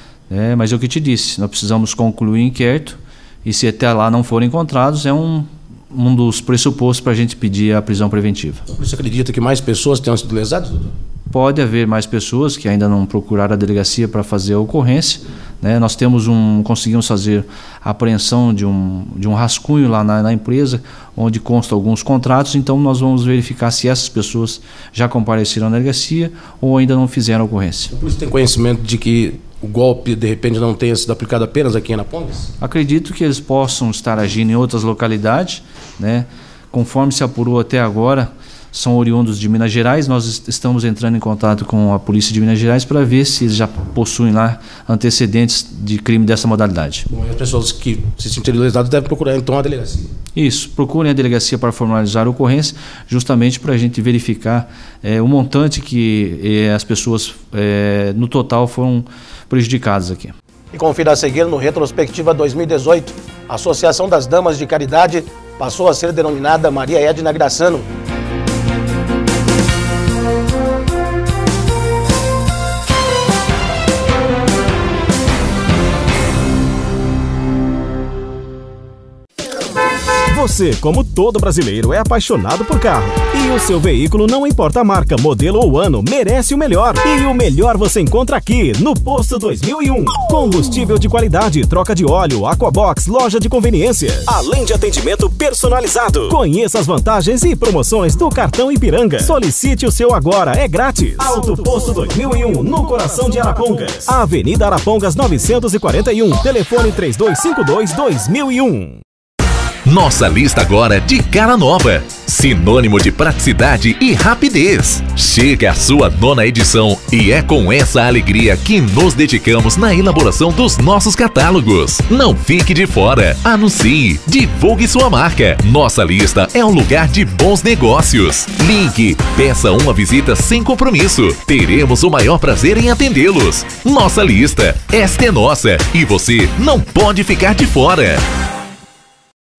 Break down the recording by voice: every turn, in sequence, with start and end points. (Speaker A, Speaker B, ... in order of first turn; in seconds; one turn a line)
Speaker A: 0.3-8.6
Speaker B: 8.7-10.9
Speaker A: 11.3-27.9
Speaker B: 27.9-32.5
Speaker A: 32.6-47.1
Speaker B: 47.1-50.1
Speaker A: 50.3-60.3
Speaker B: 60.7-67.9
Speaker C: 80.3-109.0
Speaker D: 109.8-138.2